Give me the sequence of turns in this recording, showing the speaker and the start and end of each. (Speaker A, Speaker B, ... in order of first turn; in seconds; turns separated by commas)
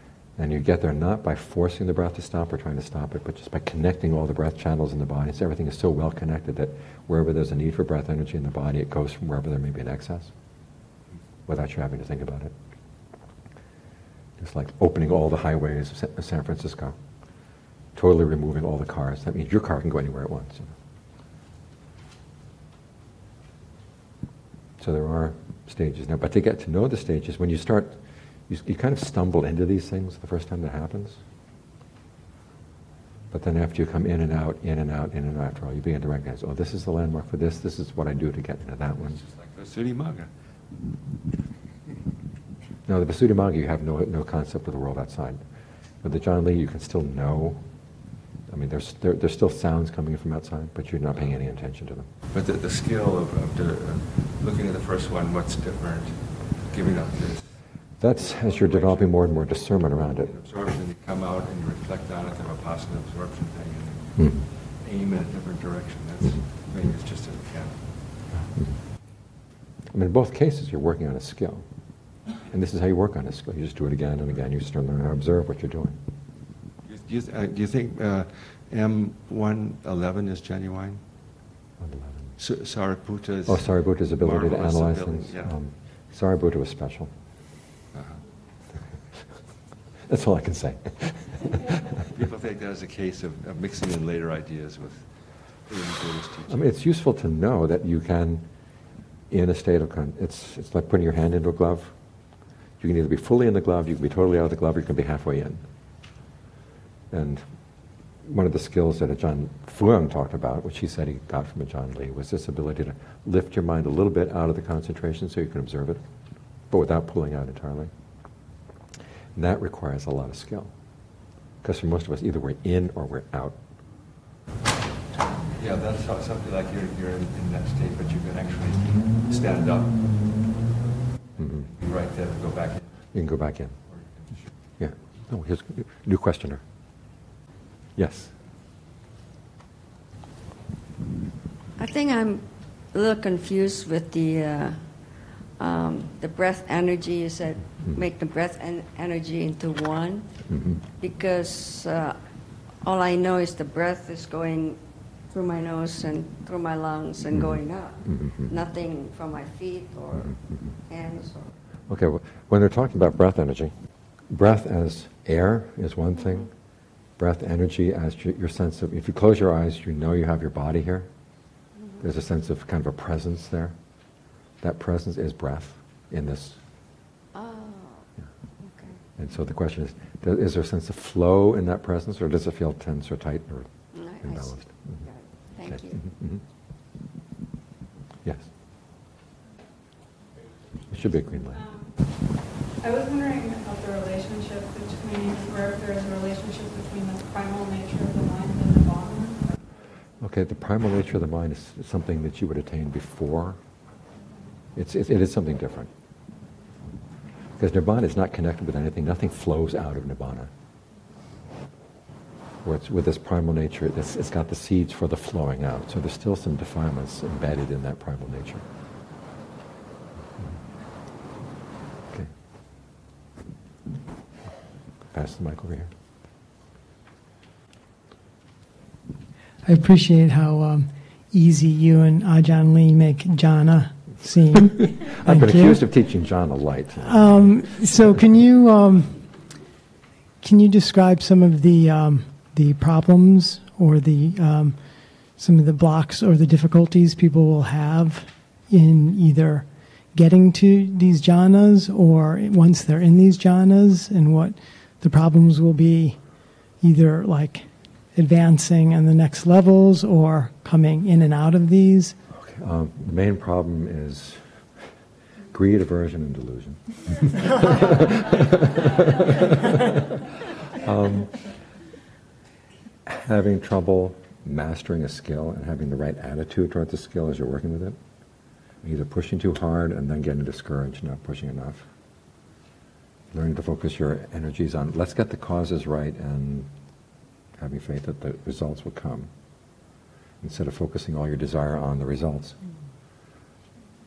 Speaker A: 0.4-10.3, Speaker A: 11.5-12.5, Speaker A: 14.4-16.9, Speaker A: 17.9-20.7, Speaker A: 24.8-31.2, Speaker A: 33.3-39.2, Speaker B: 39.2-40.3, Speaker A: 42.9-45.4, Speaker A: 46.0-47.6, Speaker A: 48.5-52.1, Speaker B: 52.3-68.3, Speaker A: 58.0-60.3, Speaker A: 64.2-64.4, Speaker A: 68.3-68.8, Speaker A: 69.9-71.6, Speaker A: 72.5-76.0, Speaker B: 76.8-81.0, Speaker A: 81.8-82.3, Speaker B: 82.4-85.6, Speaker A: 83.5-87.1, Speaker B: 87.9-88.2, Speaker A: 90.1-91.6, Speaker B: 92.0-96.7, Speaker A: 96.5-98.5, Speaker A: 99.3-101.9, Speaker A: 102.8-105.6, Speaker A: 107.1-107.4, Speaker A: 108.2-116.0, Speaker A: 116.7-117.9, Speaker A: 119.3-120.7, Speaker A: 121.6-123.5, Speaker B: 125.5-130.5, Speaker A: 131.4-131.7, Speaker B: 131.6-132.8, Speaker A: 133.1-133.7, Speaker B: 133.9-134.5, Speaker A: 134.8-136.6, Speaker A: 138.0-138.3, Speaker C: 141.8-161.5, Speaker A: 150.5-150.8, Speaker A: 157.4-158.5, Speaker A: 161.9-163.7, Speaker A: 164.3-166.5, Speaker A: 167.2-171.1, Speaker C: 171.8-172.1, Speaker A: 172.0-173.7, Speaker A: 174.6-176.6, Speaker C: 177.3-179.0, Speaker A: 179.2-183.7, Speaker C: 183.9-186.1, Speaker A: 184.2-185.0, Speaker A: 185.7-186.4, Speaker A: 188.2-188.5, Speaker A: 190.9-191.6, Speaker D: 192.8-199.4, Speaker A: 200.2-203.6, Speaker A: 204.8-205.9, Speaker A: 207.6-210.5, Speaker A: 212.6-218.6, Speaker A: 225.1-225.9, Speaker E: 229.6-235.8, Speaker A: 234.9-237.8, Speaker E: 237.0-239.4, Speaker E: 240.4-256.2, Speaker E: 256.8-262.2, Speaker A: 262.3-264.6, Speaker A: 265.5-270.2, Speaker A: 270.7-271.6, Speaker A: 273.1-278.0, Speaker A: 278.8-281.9, Speaker A: 283.3-286.7, Speaker A: 287.6-289.3, Speaker A: 290.4-292.6